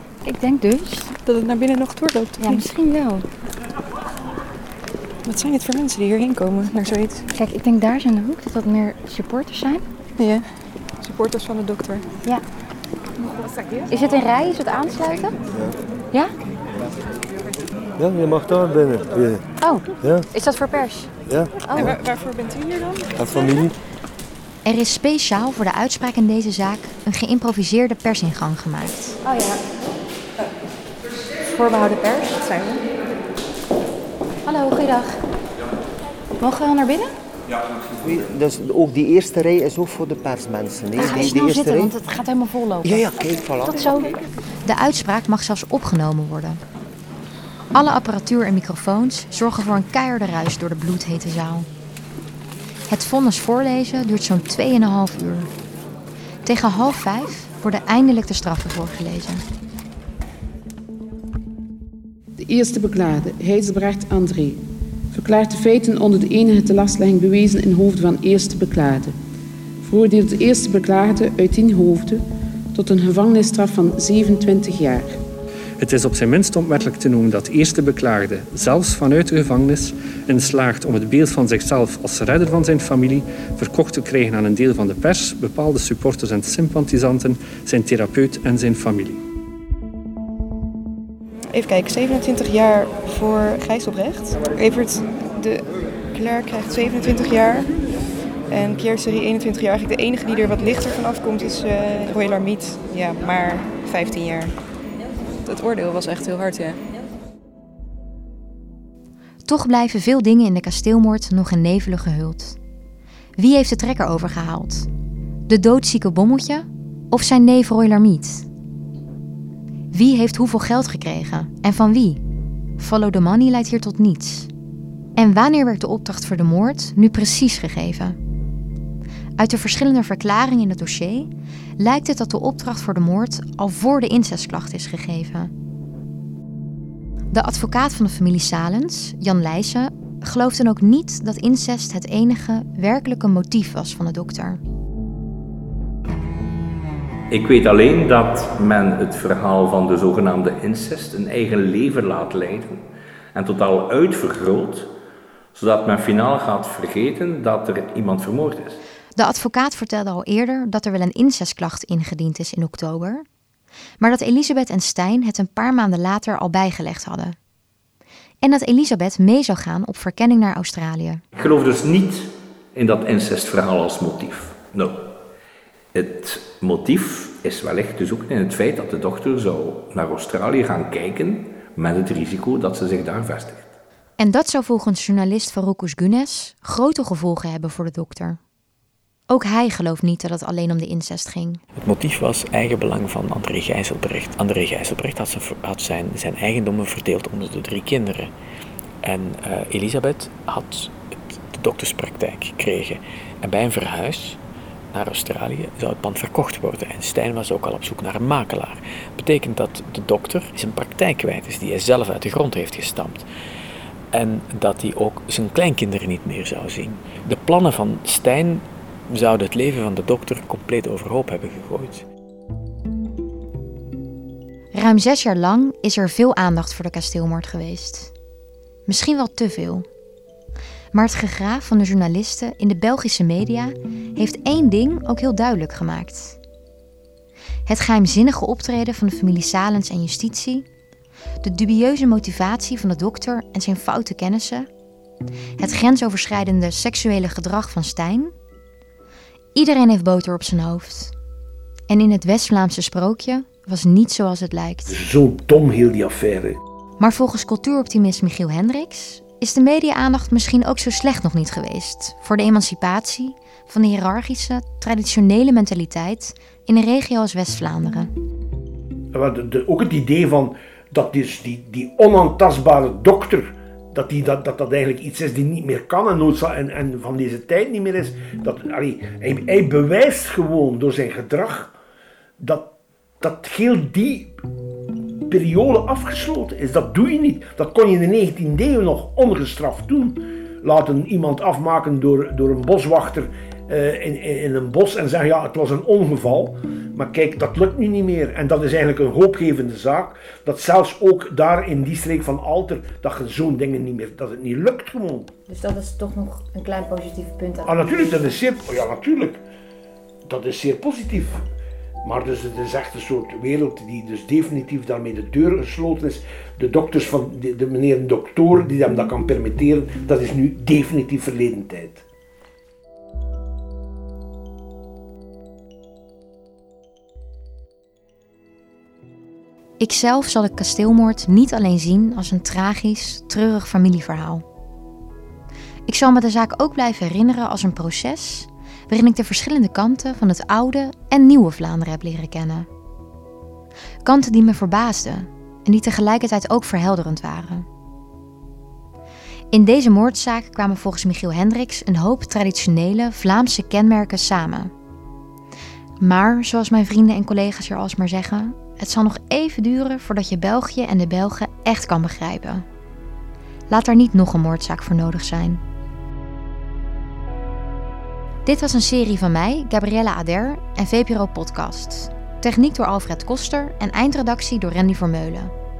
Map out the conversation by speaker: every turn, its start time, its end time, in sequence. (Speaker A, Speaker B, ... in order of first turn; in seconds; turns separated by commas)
Speaker A: 0.2-1.1, Speaker B: 1.2-2.7, Speaker A: 2.4-3.2, Speaker B: 5.2-7.3, Speaker A: 7.3-9.8, Speaker B: 10.2-10.5, Speaker B: 11.0-12.1, Speaker A: 13.9-15.3, Speaker C: 18.0-19.4, Speaker A: 19.6-21.1, Speaker C: 20.0-20.3, Speaker C: 21.3-21.9, Speaker A: 21.7-22.0, Speaker B: 21.8-23.2, Speaker C: 23.1-23.7, Speaker D: 24.6-29.2, Speaker A: 29.2-29.6, Speaker A: 31.5-32.4, Speaker B: 32.4-32.9, Speaker A: 34.5-35.2, Speaker A: 36.4-37.1, Speaker C: 38.0-42.0, Speaker A: 41.0-43.1, Speaker C: 42.8-44.0, Speaker A: 43.7-44.2, Speaker D: 44.7-46.6, Speaker D: 47.7-51.7, Speaker D: 52.9-55.5, Speaker D: 56.5-59.4, Speaker E: 62.4-69.2, Speaker E: 69.8-75.2, Speaker F: 75.8-89.2, Speaker B: 91.5-97.8, Speaker B: 98.5-104.5, Speaker B: 105.5-106.8, Speaker D: 109.5-112.6, Speaker D: 113.4-114.9, Speaker D: 115.5-118.5, Speaker D: 119.9-122.2, Speaker D: 122.8-124.5, Speaker D: 125.2-128.2, Speaker D: 129.4-135.5, Speaker D: 137.3-144.6, Speaker G: 147.3-152.8, Speaker G: 153.3-154.9, Speaker G: 155.5-158.8, Speaker D: 159.2-163.2, Speaker D: 164.0-167.4, Speaker D: 168.4-171.2, Speaker G: 171.3-175.1, Speaker G: 175.9-183.7, Speaker D: 184.2-188.4, Speaker D: 189.3-191.6, Speaker H: 191.8-198.3, Speaker H: 199.0-204.4, Speaker H: 204.9-213.3, Speaker H: 214.1-222.0, Speaker D: 224.8-228.1, Speaker D: 228.9-229.9, Speaker D: 230.9-236.4, Speaker D: 237.7-240.7, Speaker D: 241.4-244.7, Speaker D: 245.6-248.3, Speaker D: 249.6-251.1, Speaker D: 251.9-254.9, Speaker I: 254.9-256.6, Speaker D: 257.0-268.1, Speaker I: 269.1-281.8, Speaker I: 282.4-284.3, Speaker I: 285.3-305.3, Speaker A: 305.5-308.3, Speaker I: 307.6-309.4, Speaker I: 310.3-311.4, Speaker I: 312.0-322.0, Speaker D: 329.8-334.4, Speaker D: 335.9-342.7, Speaker D: 344.1-347.7, Speaker D: 349.5-354.7, Speaker D: 356.0-362.6, Speaker D: 363.7-365.6, Speaker D: 368.5-375.5